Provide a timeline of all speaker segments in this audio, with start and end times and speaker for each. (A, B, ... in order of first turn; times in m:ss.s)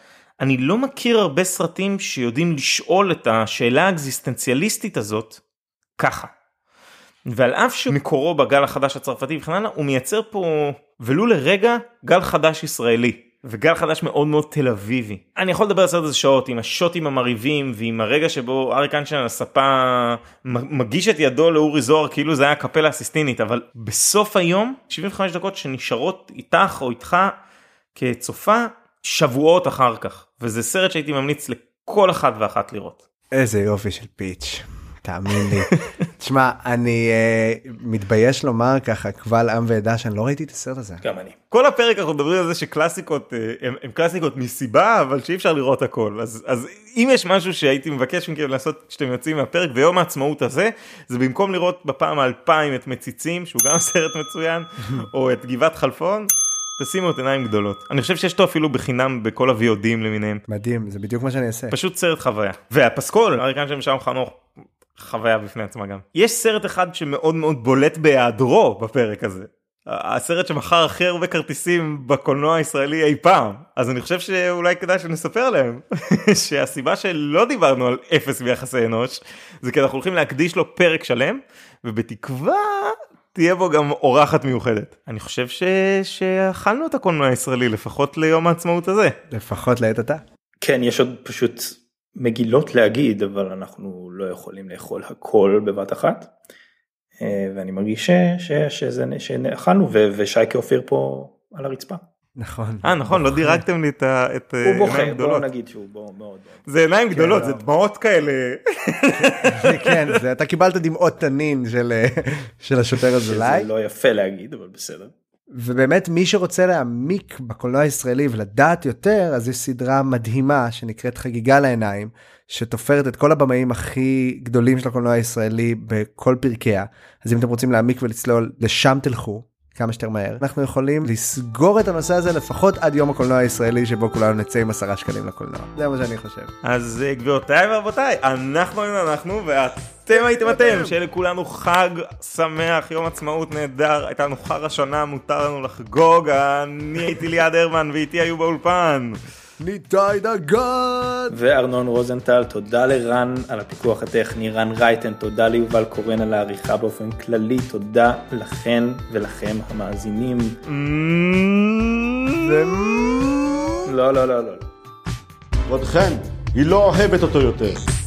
0:00.4-0:05.4 A
0:06.0-0:06.3 A
0:07.3-0:27.4 A
0:28.0-0:33.0 A
0:33.3-0:41.0 B
0:41.0-0:41.4 C
0:41.5-1:00.4 A
1:00.5-1:01.8 B
1:01.7-1:29.2 A
1:29.3-1:30.2 B
1:30.6-1:36.3 C
1:37.2-1:42.0 C
1:42.4-1:43.6 B
1:42.8-1:45.5 A
1:44.6-1:46.7 C
1:46.7-1:50.0 A
1:47.1-1:47.6 B
1:49.5-1:53.7 B
1:53.3-1:55.1 C
1:55.5-2:16.5 B
2:16.6-2:29.2 A
2:20.1-2:21.0 B
2:29.6-2:31.4 B
2:31.3-2:40.6 C
2:40.7-2:42.8 A
2:42.4-2:43.9 B
2:43.8-2:44.7 C
2:45.7-2:47.8 D